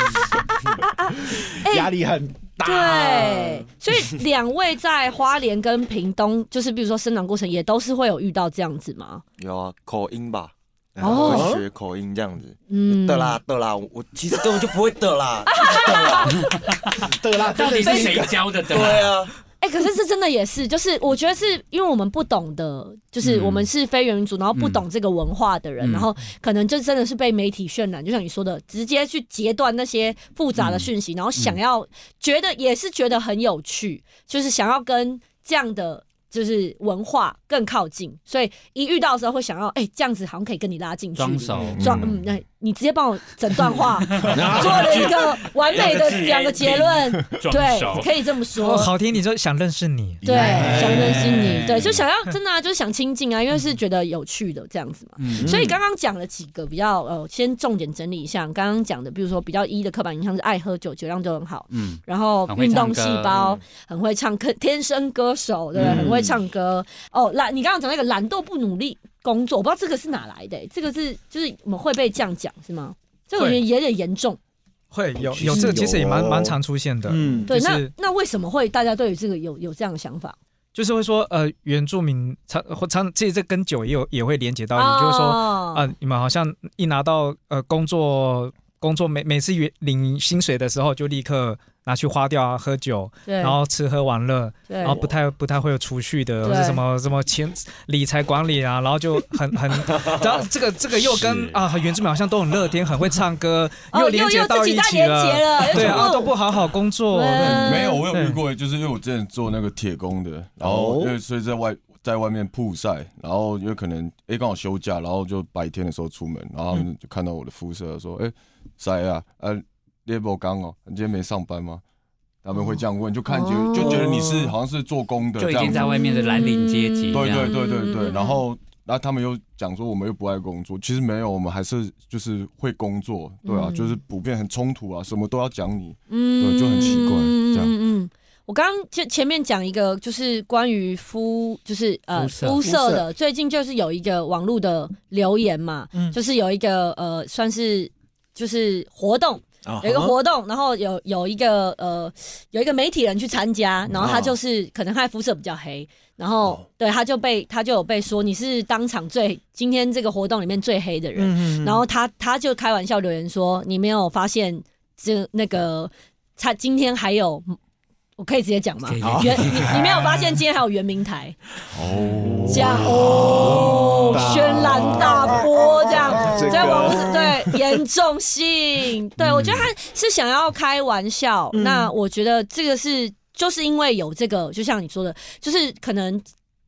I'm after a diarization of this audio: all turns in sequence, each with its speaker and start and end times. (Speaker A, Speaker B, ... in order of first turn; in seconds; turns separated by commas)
Speaker A: 0.8-1.9, Speaker B: 1.3-3.7, Speaker A: 2.6-9.2, Speaker C: 9.4-16.4, Speaker B: 10.9-11.7, Speaker A: 11.0-11.5, Speaker A: 12.7-13.4, Speaker A: 15.4-16.6, Speaker B: 17.0-18.5, Speaker D: 17.4-19.1, Speaker A: 17.8-18.3, Speaker C: 18.7-19.3, Speaker A: 19.6-48.9, Speaker D: 23.2-23.7, Speaker D: 24.5-24.8, Speaker D: 25.8-26.1, Speaker D: 30.6-31.6, Speaker D: 41.1-41.8, Speaker E: 41.7-42.2, Speaker D: 44.2-44.6, Speaker B: 44.3-45.1, Speaker C: 44.5-46.9, Speaker D: 45.8-48.1, Speaker F: 48.5-50.9, Speaker A: 50.2-74.4, Speaker B: 50.3-51.4, Speaker D: 50.3-52.0, Speaker D: 55.2-55.6, Speaker B: 55.4-55.8, Speaker D: 61.7-63.4, Speaker C: 63.3-63.6, Speaker B: 65.7-66.4, Speaker F: 73.3-73.6, Speaker F: 74.9-77.9, Speaker B: 75.2-77.5, Speaker A: 75.5-75.8, Speaker A: 77.5-80.3, Speaker F: 80.7-108.4, Speaker A: 84.7-85.9, Speaker A: 93.2-93.6, Speaker A: 94.7-95.0, Speaker A: 96.4-96.8, Speaker A: 103.9-106.3, Speaker A: 107.1-108.0, Speaker E: 107.4-121.8, Speaker B: 110.6-111.1, Speaker E: 122.4-125.9, Speaker A: 123.3-124.1, Speaker D: 125.4-127.5, Speaker A: 125.7-128.4, Speaker E: 127.1-137.7, Speaker A: 133.4-133.9, Speaker A: 136.1-167.6, Speaker D: 142.1-142.6, Speaker B: 142.6-143.1, Speaker B: 149.6-150.2, Speaker B: 153.9-154.4, Speaker B: 161.2-161.8, Speaker A: 168.2-171.4, Speaker D: 168.8-169.8, Speaker B: 169.0-170.2, Speaker E: 171.7-173.0, Speaker B: 172.2-177.6, Speaker A: 172.5-186.2, Speaker D: 179.2-179.7, Speaker B: 181.5-181.9